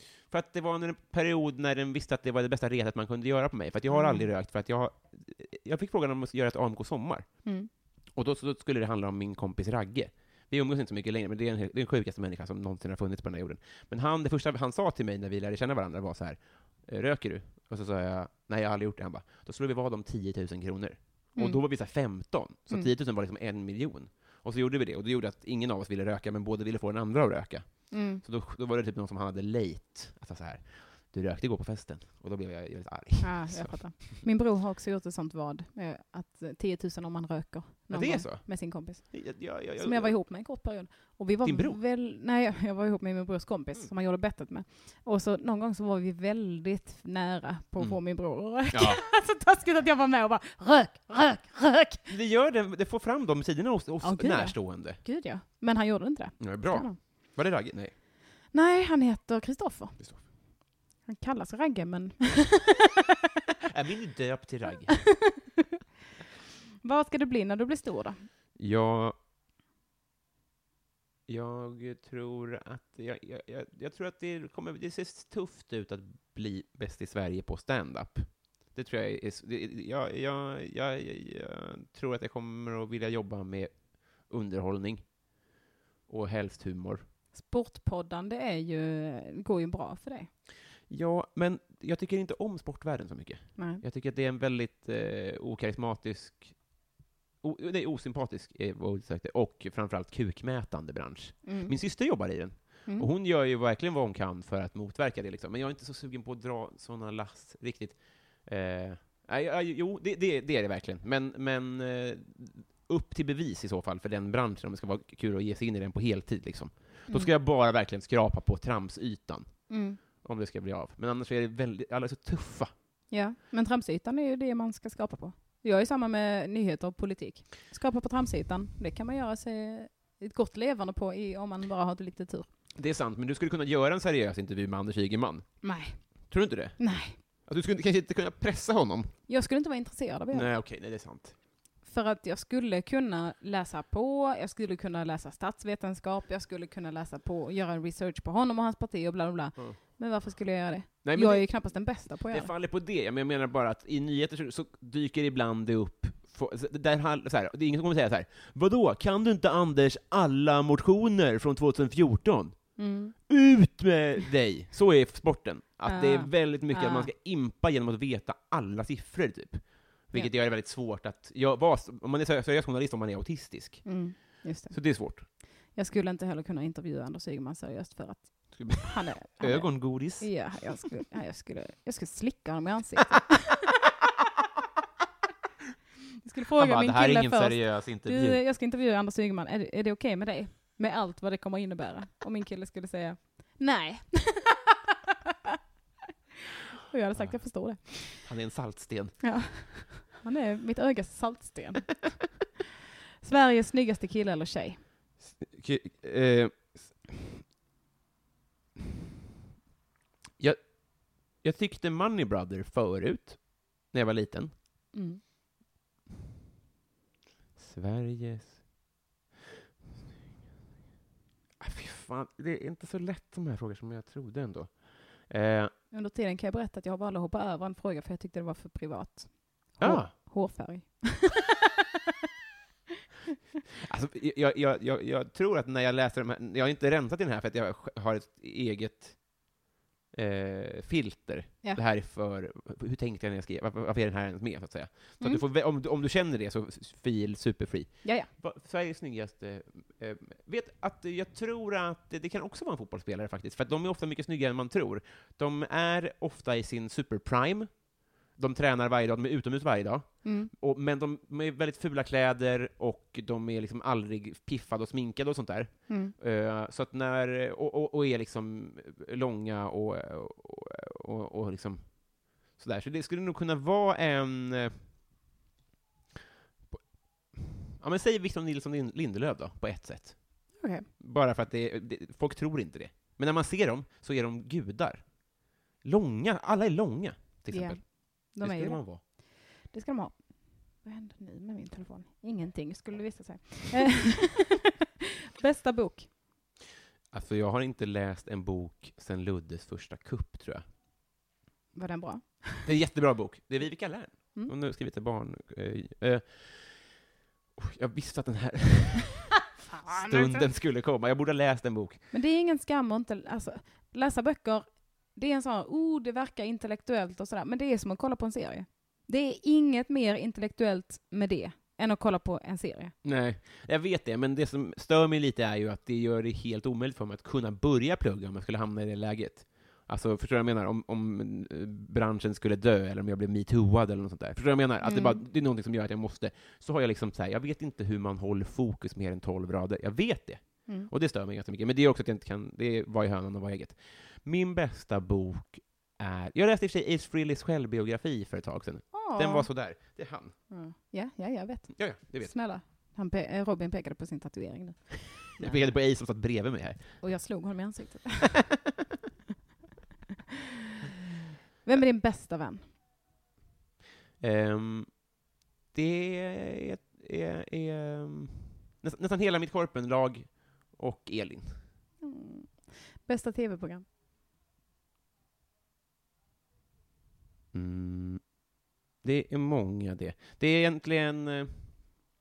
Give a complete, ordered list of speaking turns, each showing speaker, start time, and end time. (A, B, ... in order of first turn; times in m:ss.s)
0:00.3-0:07.6 A
0:03.9-0:04.3 B
0:08.1-0:33.8 A
0:21.4-0:22.2 B
0:27.9-0:28.2 B
0:33.2-0:52.0 B
0:37.9-0:40.5 A
0:41.4-0:41.8 A
0:47.8-0:49.0 A
0:52.1-0:55.0 A
0:54.0-0:57.0 B
0:56.4-0:57.9 A
0:58.5-1:02.9 B
1:00.0-1:00.3 A
1:03.7-1:05.1 A
1:06.8-1:08.3 B
1:08.6-1:09.2 A
1:11.3-1:25.5 A
1:26.1-1:27.1 A
1:27.3-1:30.3 B
1:30.9-1:36.8 A
1:33.6-1:33.8 B
1:37.4-2:02.7 A
1:41.4-1:42.3 B
1:59.7-2:00.0 B
2:03.1-2:12.5 B
2:12.7-2:15.6 A
2:15.6-2:16.0 B
2:16.3-2:19.1 A
2:16.8-2:17.2 B
2:19.3-2:20.5 B
2:20.3-2:21.4 A
2:21.8-2:32.5 B
2:31.0-2:55.3 A
2:42.8-2:43.2 B
2:45.8-2:47.1 B
2:53.8-3:03.4 B
2:58.6-3:00.6 A
3:06.2-3:14.9 B
3:06.6-3:08.4 A
3:16.9-3:18.3 B
3:17.1-3:19.6 A
3:19.2-3:22.2 B
3:23.2-3:24.8 B
3:25.2-3:27.2 A
3:30.4-3:34.5 A
3:34.9-3:35.2 B
3:37.6-3:38.6 A
3:41.6-3:45.7 A
3:45.9-3:51.5 B
3:49.8-3:50.1 A
3:53.8-3:59.4 A
4:00.1-4:34.8 A
4:08.0-4:08.3 B
4:20.2-4:20.5 B
4:25.9-4:26.1 B
4:36.7-4:49.0 A
4:40.6-4:40.9 B
4:47.5-4:54.5 B
4:55.4-4:56.1 B
4:57.1-5:00.6 A
5:01.7-5:02.7 B
5:02.6-5:07.0 A
5:07.6-5:09.3 A
5:09.7-5:10.5 B
5:09.9-5:12.0 A
5:12.1-5:22.9 B
5:23.0-5:50.3 A
5:34.8-5:35.2 B
5:48.9-5:49.5 B
5:50.5-5:55.6 B
5:51.7-5:52.4 A
5:55.4-5:57.1 A
5:57.0-5:58.4 B
6:01.6-6:02.6 B
6:04.2-6:05.2 A
6:05.7-6:11.6 A
6:12.0-6:13.8 B
6:17.5-6:18.4 A
6:19.0-6:21.8 A